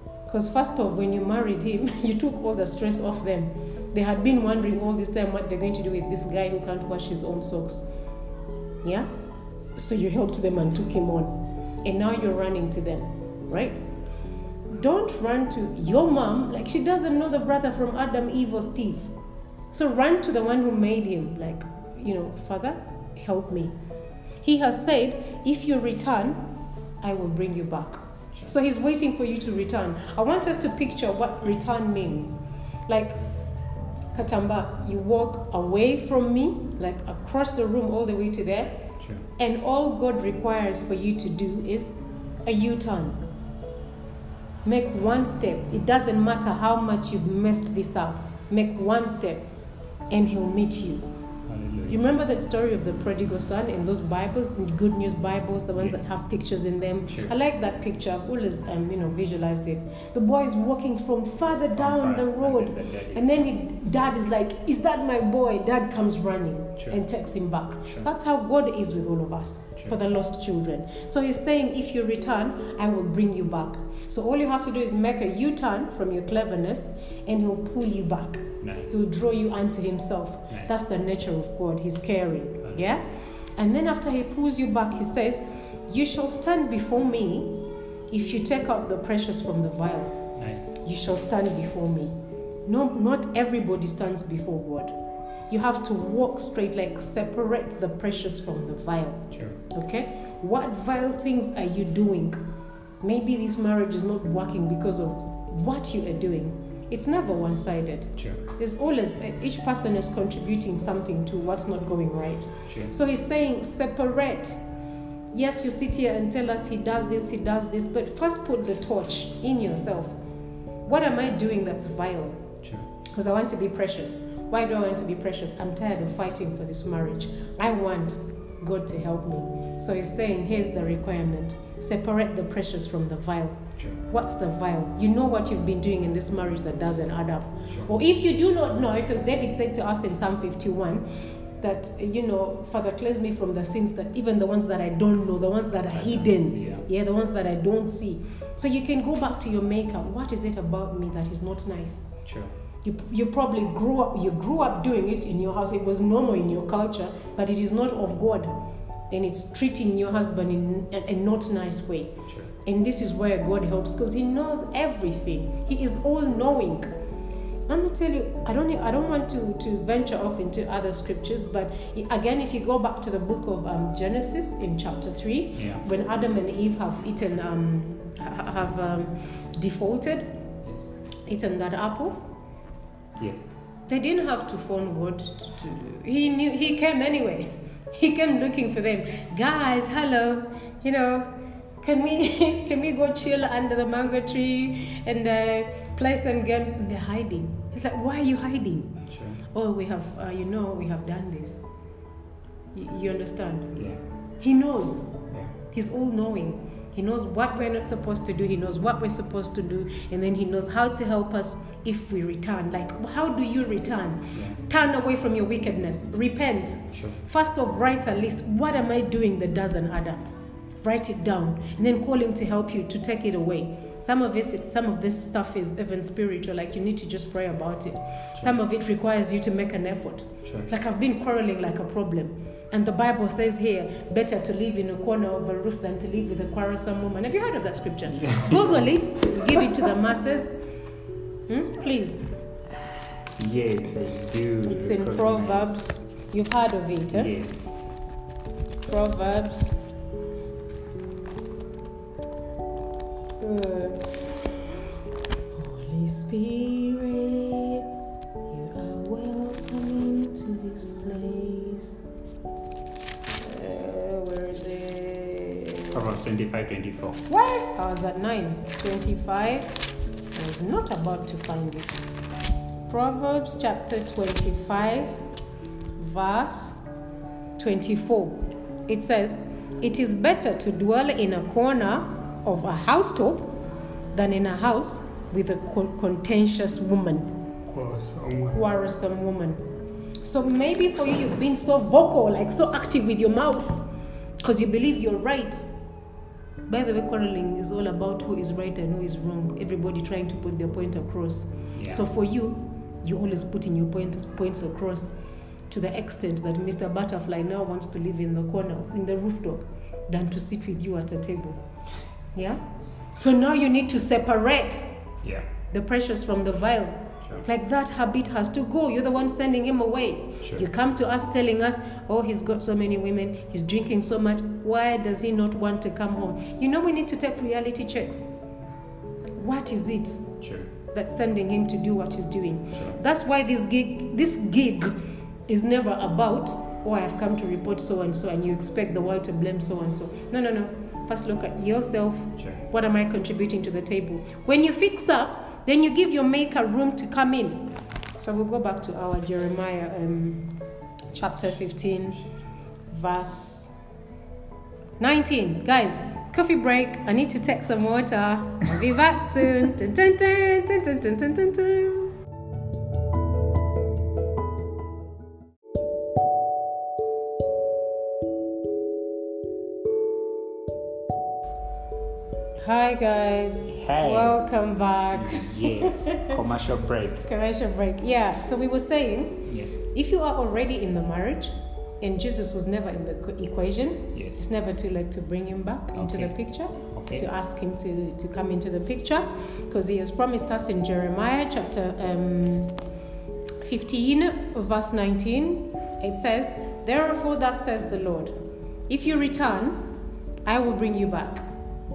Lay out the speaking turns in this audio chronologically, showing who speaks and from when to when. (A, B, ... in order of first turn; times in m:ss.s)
0:00.3-0:07.9 A
0:08.8-0:09.1 A
0:09.8-0:13.8 A
0:14.7-0:19.1 A
0:19.7-0:23.7 A
0:24.4-0:33.2 A
0:34.1-0:43.2 A
0:39.0-0:39.2 B
0:44.6-0:49.4 A
0:50.1-0:51.1 A
0:51.5-0:52.0 B
0:51.9-1:30.3 A
0:57.1-0:57.3 B
1:01.8-1:03.5 B
1:18.6-1:19.0 B
1:30.4-1:30.8 B
1:30.8-1:35.0 A
1:35.5-1:42.4 A
1:39.3-1:39.6 B
1:43.0-1:54.6 A
1:52.7-1:52.9 B
1:55.3-2:00.2 A
2:00.9-2:02.5 A
2:02.6-2:02.9 B
2:03.1-2:21.1 A
2:21.6-2:32.1 A
2:25.9-2:26.9 B
2:32.2-2:32.5 B
2:32.8-2:38.5 A
2:39.1-2:46.9 A
2:47.7-3:00.4 A
2:55.6-2:55.8 B
3:01.3-3:02.2 A
3:03.2-3:03.5 B
3:03.9-3:21.6 A
3:19.1-3:19.4 B
3:22.7-3:23.8 A
3:23.8-3:24.0 B
3:24.4-4:00.6 A
3:34.3-3:34.6 B
3:58.1-3:59.0 B
4:01.5-4:02.2 A
4:03.3-4:05.8 B
4:04.6-4:07.3 A
4:07.1-4:07.9 B
4:08.8-4:09.8 A
4:13.4-4:14.2 A
4:15.5-4:17.9 A
4:18.5-4:22.0 A
4:23.4-4:26.0 A
4:25.9-4:27.2 B
4:27.3-4:29.8 A
4:30.3-4:32.0 A
4:32.9-4:35.2 A
4:36.0-4:36.8 A
4:37.6-4:43.6 A
4:44.1-4:47.4 A
4:47.7-4:48.6 B
4:48.5-4:49.6 A
4:50.2-4:53.8 A
4:54.4-4:55.6 A
4:56.7-5:05.2 A
5:01.8-5:02.0 B
5:05.7-5:11.6 A
5:12.4-5:14.9 A
5:15.2-5:15.5 B
5:15.7-5:28.3 A
5:20.4-5:20.7 B
5:29.4-5:30.4 A
5:30.4-5:30.7 B
5:30.9-5:50.6 A
5:51.1-5:52.2 A
5:52.9-5:53.8 A
5:55.0-6:02.1 A
6:12.6-6:16.4 A
6:13.7-6:14.4 B
6:15.1-6:17.3 B
6:17.3-6:32.8 A
6:19.5-6:19.8 B
6:24.1-6:24.4 B
6:26.0-6:26.3 B
6:26.9-6:27.3 B
6:33.6-6:38.4 A
6:38.9-6:41.5 A